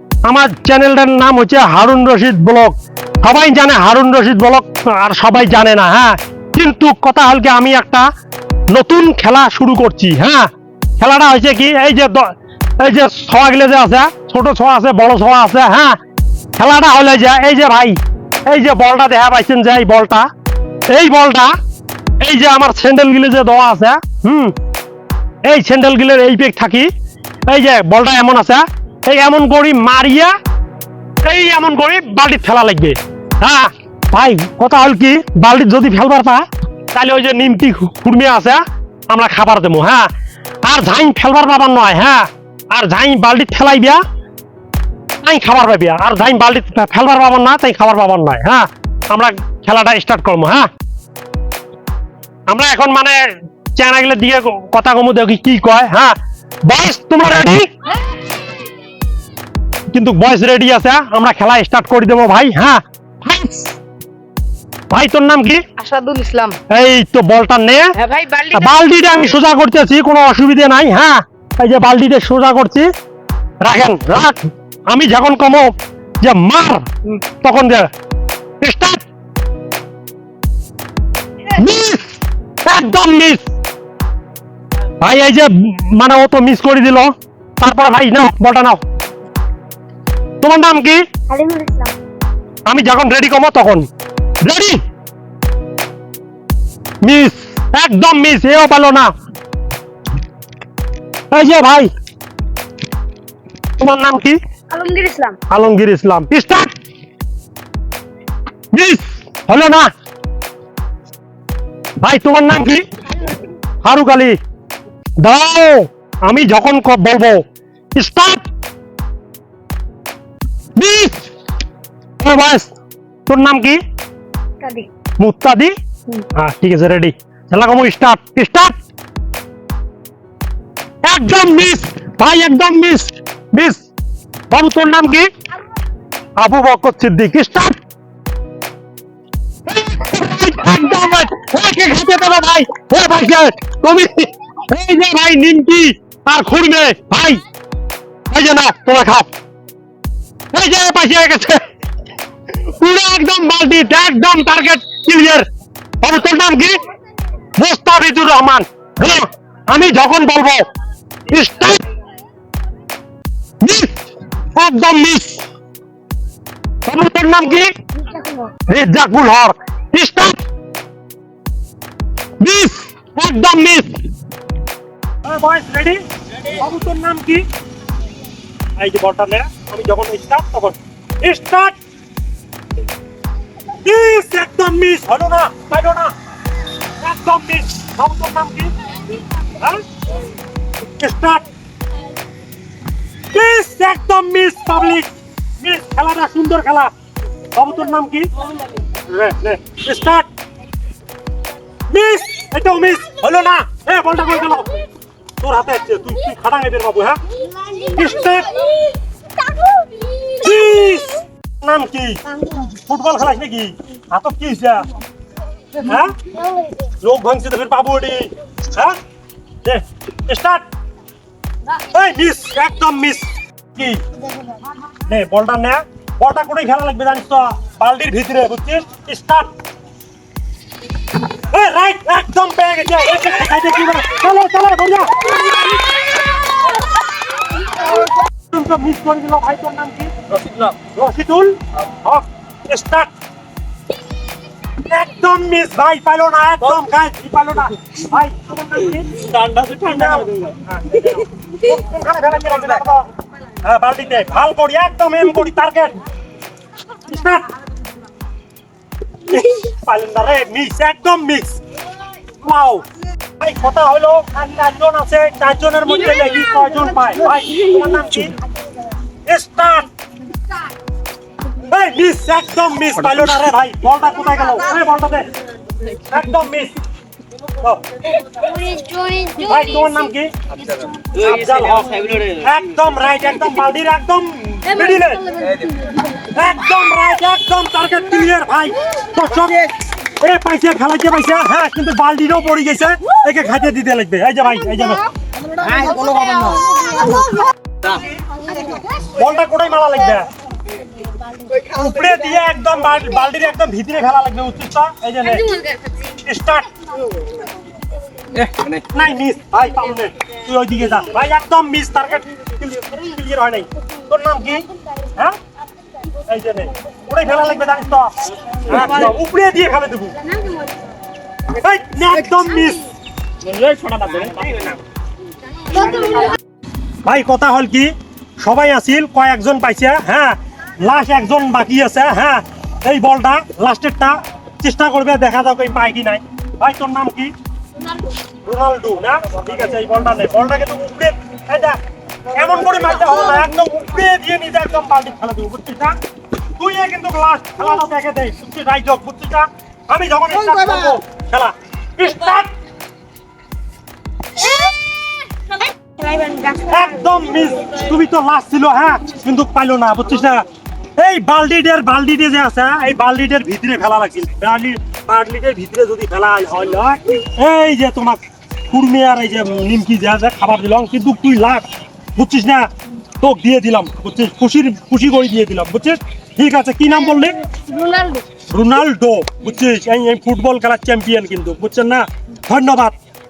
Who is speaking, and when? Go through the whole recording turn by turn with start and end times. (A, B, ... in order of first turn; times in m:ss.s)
0:00.2-0:08.0 A
0:08.7-0:10.5 A
0:11.0-0:16.0 A
0:16.6-0:18.0 A
0:18.5-0:20.3 A
0:20.9-0:21.5 A
0:22.2-0:24.5 A
0:25.4-0:26.9 A
0:27.5-0:30.3 A
0:31.2-0:40.1 A
0:40.6-0:44.0 A
0:45.2-0:50.7 A
0:52.5-0:53.1 A
0:53.8-0:56.1 A
0:56.7-0:57.7 A
0:59.9-1:03.7 A
1:04.9-1:05.6 A
1:05.8-1:06.6 B
1:06.7-1:07.9 A
1:08.0-1:08.7 B
1:08.5-1:12.9 A
1:13.6-1:17.9 A
1:18.6-1:19.0 A
1:21.5-1:23.4 A
1:25.0-1:27.1 A
1:27.6-1:28.8 A
1:30.4-1:31.0 A
1:31.3-1:31.9 C
1:32.7-1:33.9 A
1:34.4-1:34.8 A
1:37.0-1:39.1 A
1:41.3-1:41.9 A
1:43.8-1:44.4 A
1:44.7-1:45.4 C
1:45.5-1:46.7 A
1:48.7-1:49.9 A
1:52.0-1:52.8 A
1:53.8-1:54.4 A
1:55.2-1:57.4 A
1:58.0-1:58.4 A
2:00.8-2:01.3 A
2:02.2-2:02.7 A
2:03.3-2:03.8 A
2:04.6-2:04.9 C
2:05.2-2:05.7 A
2:06.3-2:08.7 A
2:11.0-2:13.8 A
2:14.5-2:15.3 A
2:16.4-2:17.8 A
2:19.7-2:27.4 A
2:28.3-2:29.3 A
2:30.5-2:31.6 A
2:32.8-2:35.4 A
2:36.0-2:36.8 A
2:37.6-2:40.6 A
2:41.3-2:41.8 A
2:43.6-2:44.0 A
2:44.5-2:45.4 A
2:46.9-2:47.7 A
2:48.0-2:48.5 C
2:48.7-2:50.4 A
2:52.4-2:54.0 A
2:55.2-2:57.4 A
2:58.8-3:01.8 A
3:03.8-3:06.1 A
3:07.0-3:08.7 A
3:09.5-3:09.8 A
3:11.0-3:11.4 A
3:13.3-3:16.9 A
3:17.5-3:18.3 A
3:18.9-3:20.3 A
3:21.9-3:24.8 A
3:25.4-3:27.2 A
3:27.3-3:30.3 C
3:27.9-3:28.6 A
3:30.3-3:34.9 A
3:32.4-3:32.7 C
3:35.8-3:36.2 A
3:36.4-3:36.7 C
3:37.0-3:39.0 A
3:39.6-3:40.6 A
3:41.7-3:44.0 A
3:45.0-3:49.5 A
3:51.2-3:55.5 A
3:58.5-4:00.1 A
4:00.8-4:03.1 A
4:04.8-4:13.1 A
4:09.2-4:10.4 B
4:13.6-4:16.0 A
4:17.0-4:17.5 A
4:19.3-4:21.6 A
4:22.4-4:22.8 A
4:23.4-4:28.4 A
4:29.3-4:29.9 A
4:31.6-4:35.3 A
4:35.9-4:36.8 A
4:38.3-4:39.7 C
4:39.4-4:40.3 A
4:41.1-4:45.4 A
4:45.3-4:46.2 C
4:46.3-4:55.0 A
4:55.6-4:57.3 C
4:55.9-4:56.6 B
4:59.0-5:00.3 A
5:01.6-5:05.6 A
5:05.6-5:05.9 C
5:06.2-5:06.7 A
5:08.8-5:15.4 A
5:16.2-5:20.4 A
5:21.5-5:22.9 A
5:23.4-5:24.8 B
5:25.7-5:26.4 C
5:27.0-5:37.3 A
5:38.4-5:41.8 A
5:42.3-5:46.0 A
5:46.6-5:52.5 A
5:55.8-5:56.7 C
5:56.7-6:00.4 A
6:01.0-6:12.7 A
6:13.2-6:17.4 A
6:17.5-6:18.2 C
6:18.5-6:23.0 A